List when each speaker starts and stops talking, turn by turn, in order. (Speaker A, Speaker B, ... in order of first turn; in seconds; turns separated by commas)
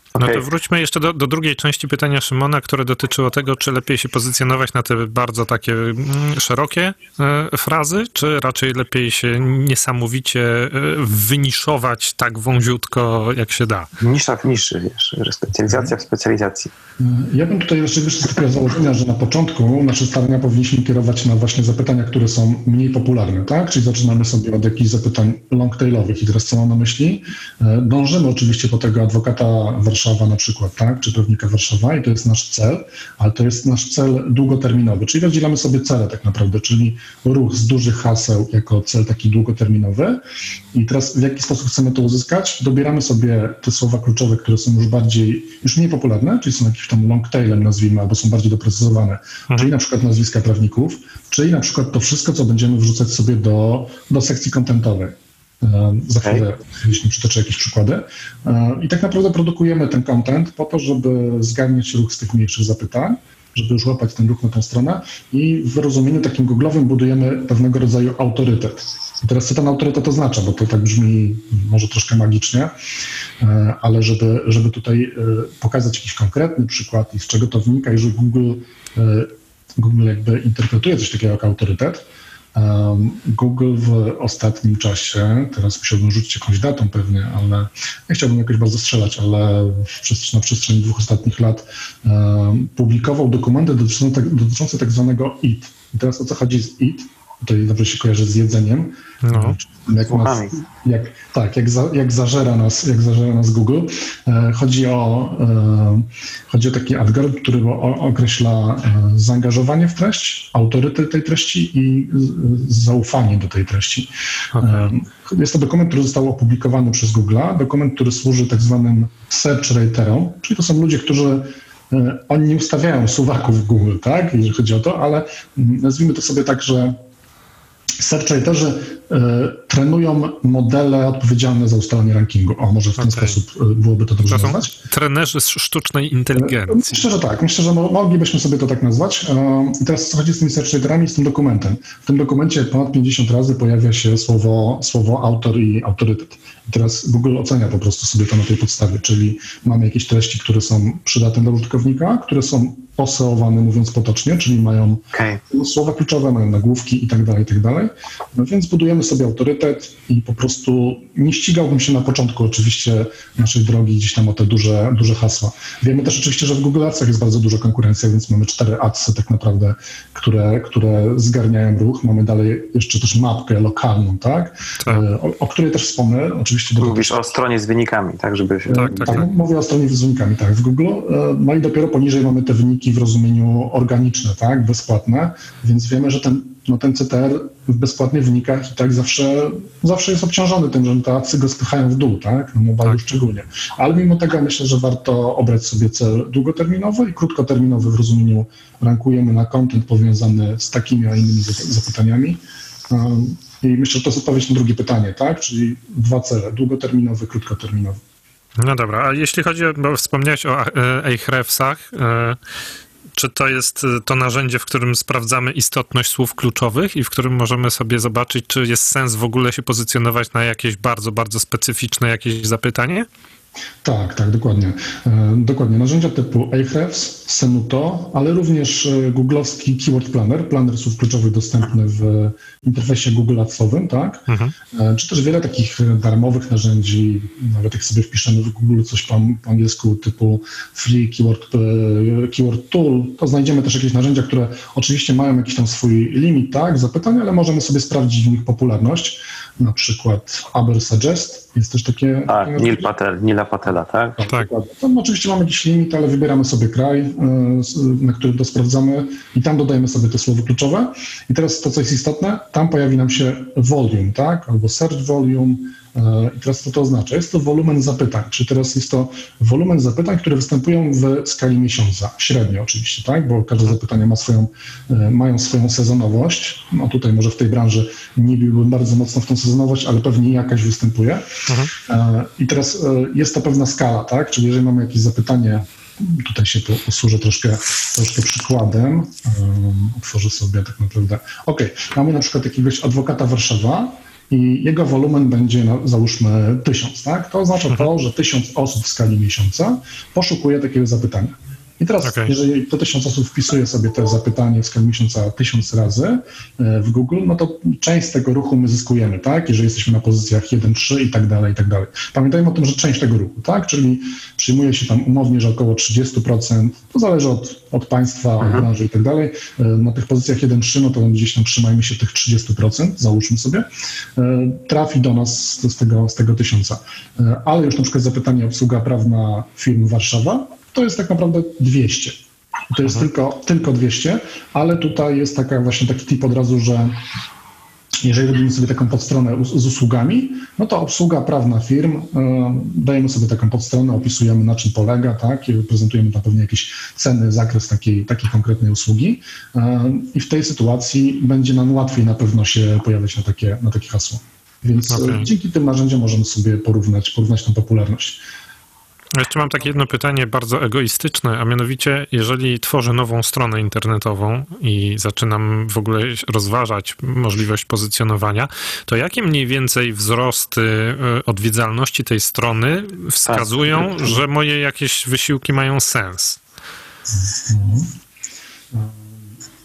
Speaker A: 0.1-0.4, Speaker B: 0.2-13.9, Speaker A: 14.0-16.7, Speaker C: 17.0-40.2, Speaker C: 40.7-72.7, Speaker C: 73.4-127.0, Speaker B: 99.2-99.6, Speaker A: 100.1-100.5, Speaker B: 114.5-114.9, Speaker C: 128.0-134.7, Speaker B: 133.0-133.4, Speaker B: 134.3-137.1, Speaker C: 136.3-177.3, Speaker A: 155.1-155.4, Speaker A: 176.8-179.2, Speaker C: 178.7-208.0, Speaker B: 178.7-179.3, Speaker B: 208.6-212.4, Speaker B: 213.1-223.1, Speaker C: 223.8-252.9, Speaker B: 234.3-234.5, Speaker A: 252.3-254.2, Speaker C: 254.2-281.2, Speaker B: 281.5-281.7, Speaker C: 281.9-323.6, Speaker B: 302.0-302.3, Speaker C: 324.2-337.0, Speaker C: 338.0-358.2, Speaker B: 354.9-355.3, Speaker B: 359.1-376.4, Speaker A: 373.2-374.2, Speaker C: 377.2-377.9, Speaker C: 378.7-379.1